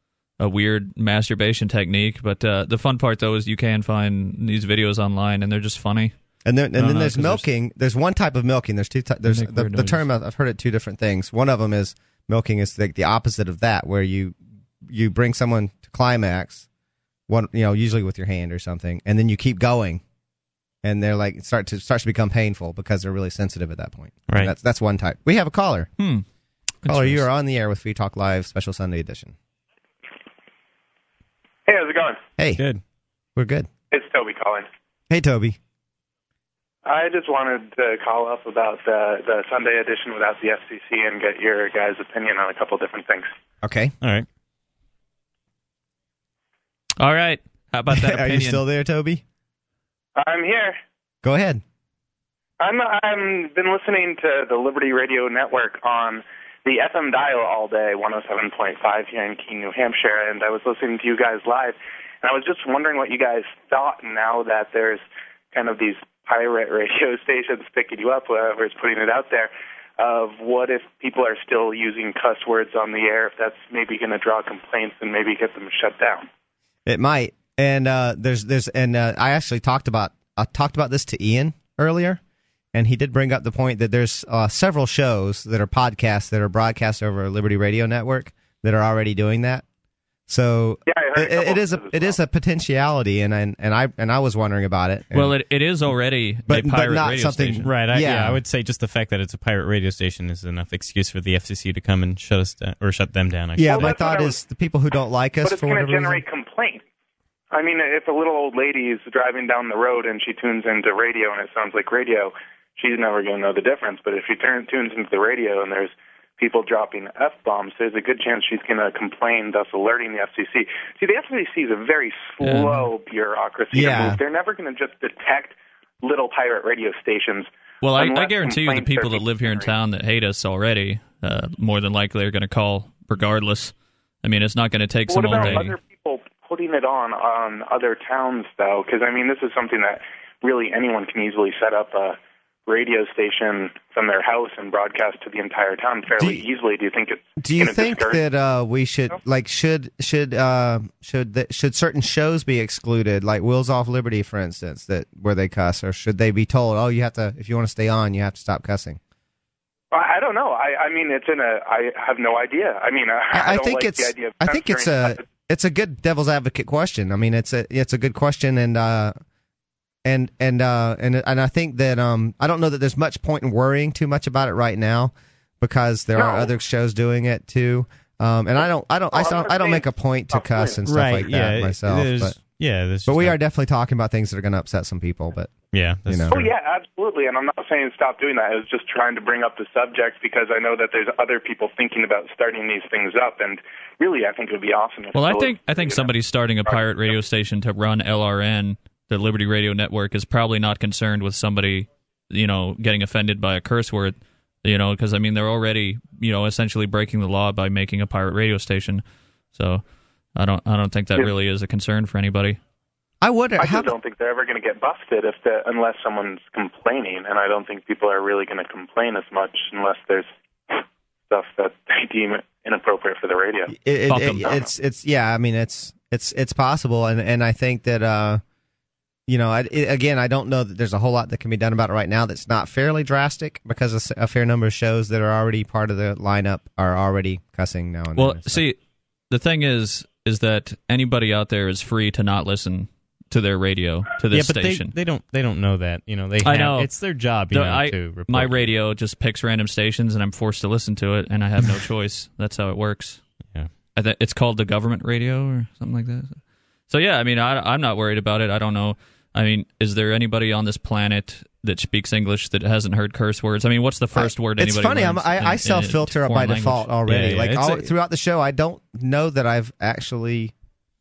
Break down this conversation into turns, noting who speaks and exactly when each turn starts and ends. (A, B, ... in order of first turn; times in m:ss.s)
0:00.4-0:06.1 A
0:06.4-0:16.7 B
0:06.7-0:07.5 A
0:09.3-0:10.0 A
0:17.3-0:20.0 B
0:20.8-0:25.9 B
0:26.0-0:26.2 A
0:26.8-0:27.2 A
0:26.8-0:29.4 B
0:31.7-0:32.2 C
0:33.4-0:33.7 B
0:33.9-0:34.7 C
0:35.1-0:35.6 B
0:36.8-0:43.3 C
0:43.6-0:43.9 B
0:44.0-0:44.3 D
0:47.0-0:48.6 A
0:47.9-0:49.2 B
0:50.2-0:50.8 C
0:51.2-0:51.6 B
0:52.6-1:16.3 C
1:16.9-1:22.2 B
1:22.7-1:29.6 B
1:30.3-1:35.4 B
1:30.9-1:32.2 C
1:35.1-1:37.7 A
1:36.5-1:38.4 B
1:37.6-1:43.9 D
1:43.6-1:46.2 B
1:43.6-1:44.4 C
1:45.4-1:46.8 C
1:47.5-2:09.7 C
2:02.4-2:02.9 A
2:03.7-2:04.2 B
2:07.8-2:15.8 A
2:15.1-2:28.2 C
2:15.3-2:15.6 D
2:26.2-2:26.4 B
2:27.4-2:39.0 B
2:39.9-2:45.3 C
2:43.3-2:49.2 B
2:50.0-3:02.4 B
2:56.2-2:56.5 C
2:59.1-3:00.8 C
3:00.8-3:03.4 D
3:03.1-3:05.5 B
3:05.7-3:06.5 D
3:06.1-3:06.4 B
3:06.3-3:16.1 C
3:15.1-3:29.8 A
3:16.6-3:17.2 C
3:30.4-3:32.6 A
3:33.2-3:33.9 B
3:33.6-3:43.7 C
3:43.7-3:48.4 B
3:44.1-3:44.5 A
3:44.3-3:44.7 C
3:49.3-3:58.7 B
3:58.2-3:58.8 A
3:59.3-4:05.0 A
4:04.3-4:08.7 D
4:06.4-4:06.9 A
4:07.5-4:13.2 A
4:14.0-4:26.9 A
4:24.2-4:30.5 B
4:27.1-4:27.9 D